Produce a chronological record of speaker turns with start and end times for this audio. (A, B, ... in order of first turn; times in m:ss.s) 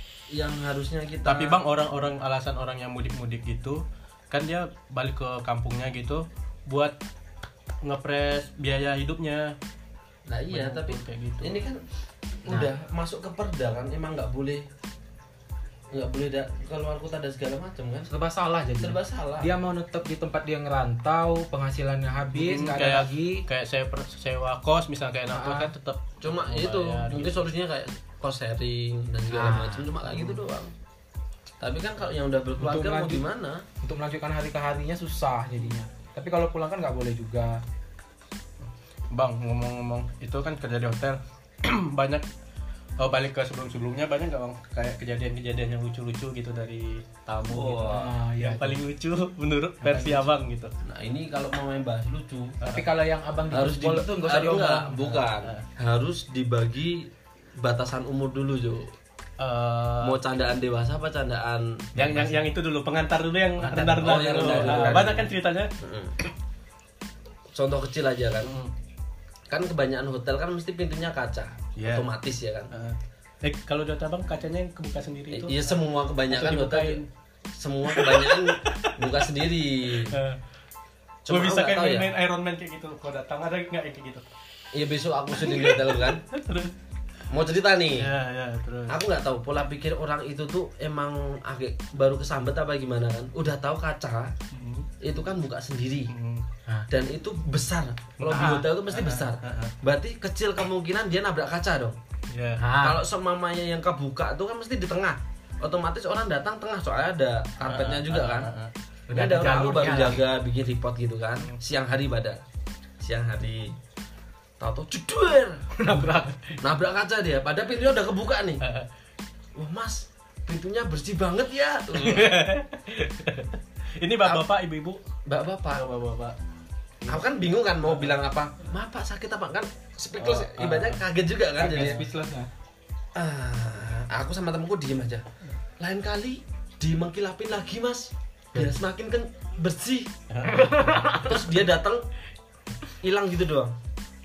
0:00.3-0:01.6 A
0:01.2-0:07.0 B
0:07.8-0:09.6 B
0:10.3-0:11.8 A
0:10.5-0:11.7 B
0:12.4-0:14.7 A
0:15.9-0:18.1 A
0:18.1-0:23.5 C
0:18.8-0:19.5 A
0:22.4-0:27.5 B
0:25.3-0:25.7 C
0:26.2-0:30.7 A
0:29.3-0:29.9 C
0:31.6-0:33.6 A
0:32.6-0:33.2 C
0:33.8-0:37.6 C
0:39.1-0:42.2 B
0:43.0-0:50.7 B
0:47.4-0:48.1 A
0:47.9-0:48.8 C
0:49.8-0:50.3 C
0:50.8-0:52.6 A
0:52.6-0:52.9 B
0:52.7-0:55.3 C
0:53.5-0:58.9 A
0:59.4-1:00.2 B
1:00.0-1:01.9 A
1:02.0-1:02.4 C
1:02.0-1:05.7 B
1:03.6-1:05.2 C
1:04.0-1:06.2 A
1:07.5-1:08.6 A
1:08.4-1:08.7 B
1:09.5-1:12.7 A
1:11.8-1:12.1 B
1:12.7-1:15.7 B
1:15.3-1:17.0 A
1:16.3-1:17.1 B
1:17.5-1:20.2 A
1:17.9-1:19.2 B
1:20.0-1:20.4 B
1:21.3-1:22.1 A
1:21.3-1:24.2 B
1:24.7-1:26.2 A
1:25.4-1:26.7 B
1:27.3-1:28.1 A
1:28.0-1:29.0 B
1:28.9-1:34.3 A
1:34.5-1:34.9 B
1:35.0-1:36.1 A
1:36.1-1:36.4 B
1:36.9-1:42.0 A
1:38.2-1:39.7 B
1:38.3-1:38.7 C
1:42.3-1:42.6 B
1:42.6-1:43.0 C
1:42.8-1:48.5 A
1:47.7-1:48.7 B
1:49.1-1:50.2 C
1:49.1-1:52.4 A
1:53.0-1:53.8 A
1:54.6-1:55.7 A
1:55.8-1:56.6 C
1:56.6-1:58.6 A
1:58.6-1:58.9 B
1:59.6-2:02.4 A
2:02.0-2:05.0 B
2:05.3-2:05.9 A
2:05.7-2:06.4 B
2:07.0-2:07.3 B
2:07.1-2:12.0 A
2:10.2-2:11.0 B
2:11.6-2:12.5 C
2:11.6-2:12.0 B
2:13.2-2:15.3 A
2:15.8-2:20.1 A
2:20.3-2:21.1 B
2:20.5-2:21.4 C
2:21.2-2:22.1 A
2:23.0-2:23.8 A